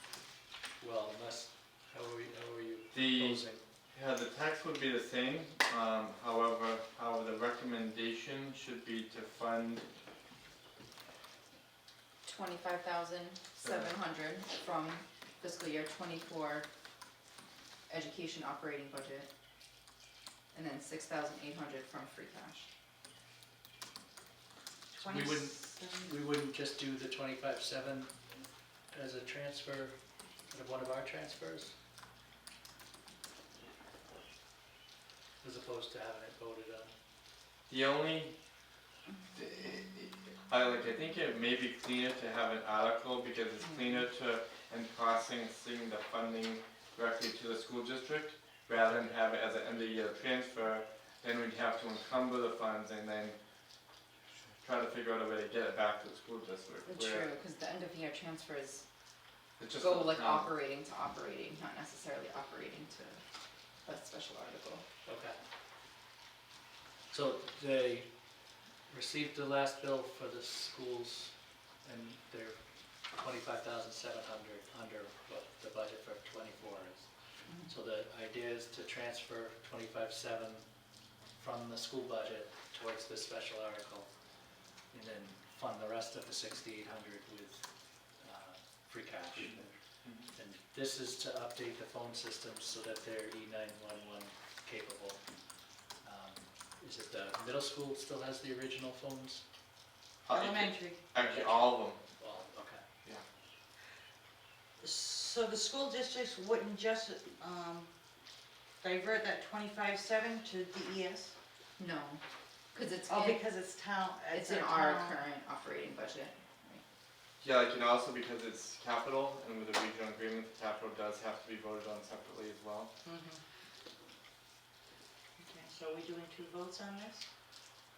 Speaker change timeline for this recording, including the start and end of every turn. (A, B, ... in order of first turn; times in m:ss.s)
0:00.8-0:03.6 A
0:02.9-0:09.8 B
0:12.2-0:16.7 C
0:13.6-0:13.9 B
0:17.9-0:19.3 C
0:20.5-0:22.7 C
0:24.9-0:26.2 D
0:25.0-0:28.1 A
0:28.9-0:30.0 A
0:30.5-0:31.7 A
0:35.4-0:36.9 A
0:37.7-0:38.3 B
0:39.3-0:53.4 B
0:48.8-0:49.1 A
0:54.6-0:57.3 B
0:56.8-0:58.8 C
0:59.6-1:00.5 B
0:59.8-1:03.2 C
1:03.8-1:04.8 C
1:05.0-1:05.4 A
1:07.1-1:08.1 A
1:08.9-1:11.3 A
1:11.8-1:12.6 A
1:13.1-1:17.1 A
1:17.7-1:20.6 A
1:21.4-1:24.1 A
1:24.9-1:27.6 A
1:28.2-1:29.7 A
1:30.3-1:35.2 A
1:36.0-1:39.4 A
1:40.2-1:42.0 B
1:40.3-1:41.0 D
1:41.2-1:42.8 A
1:44.8-1:47.9 D
1:48.8-1:51.3 D
1:51.8-1:52.2 C
1:52.7-1:53.4 C
1:53.1-1:55.2 D
1:54.3-1:56.8 C
1:57.4-2:02.9 B
2:03.0-2:03.4 D
2:05.4-2:07.2 D